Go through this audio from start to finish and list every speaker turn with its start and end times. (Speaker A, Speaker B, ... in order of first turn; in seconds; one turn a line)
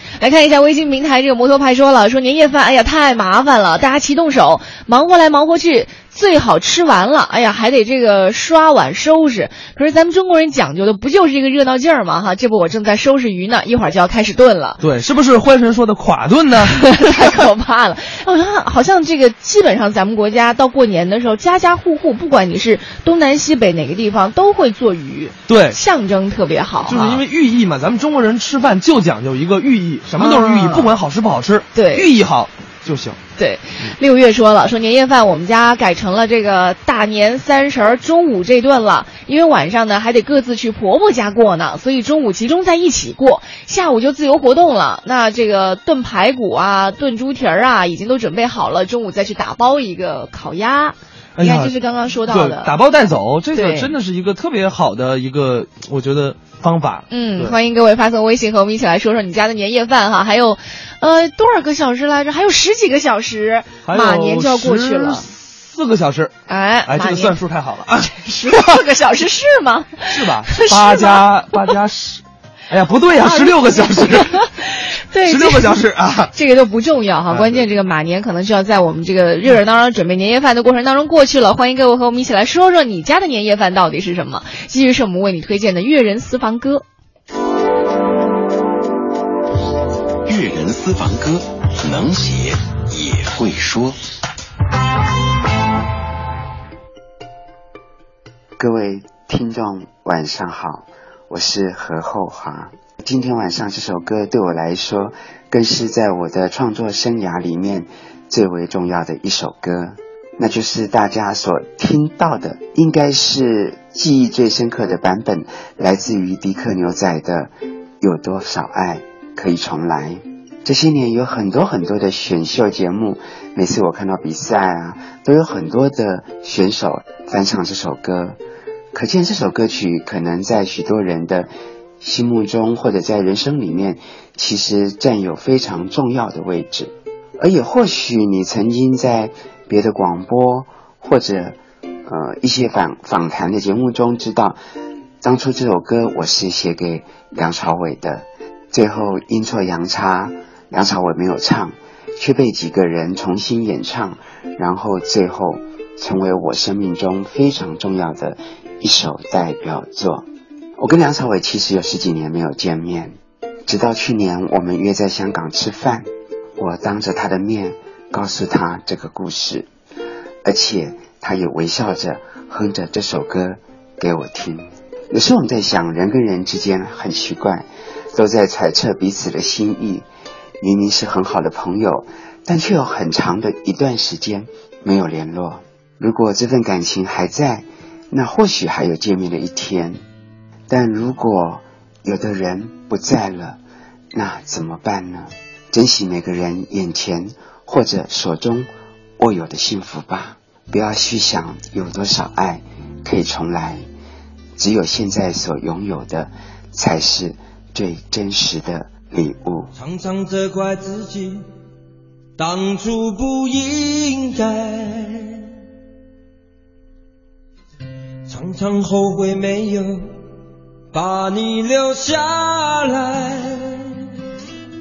Speaker A: 0.2-14.8
Speaker B: 14.8-17.3
Speaker A: 16.6-27.2
Speaker B: 25.5-25.8
Speaker B: 26.9-33.2
Speaker A: 30.2-30.9
Speaker A: 31.7-32.1
Speaker A: 33.4-52.7
Speaker B: 51.4-51.8
Speaker B: 52.3-57.6
Speaker A: 53.5-53.9
Speaker A: 57.1-65.3
Speaker B: 63.9-66.3
Speaker A: 66.5-67.4
Speaker B: 66.9-68.8
Speaker A: 68.0-71.7
Speaker B: 70.1-74.5
Speaker A: 73.2-75.8
Speaker B: 75.2-76.3
Speaker A: 76.3-86.8
Speaker B: 77.3-77.7
Speaker C: 90.2-94.0
Speaker D: 98.6-128.4
Speaker D: 128.9-131.5
Speaker D: 132.0-144.6
Speaker D: 145.2-160.3
Speaker D: 160.8-163.2
Speaker D: 163.7-169.7
Speaker D: 170.4-180.1
Speaker D: 180.6-190.0
Speaker D: 190.7-193.6
Speaker D: 194.1-203.8
Speaker D: 204.6-209.7
Speaker E: 209.8-211.4
Speaker E: 212.4-215.4
Speaker E: 218.3-220.1
Speaker E: 220.9-224.0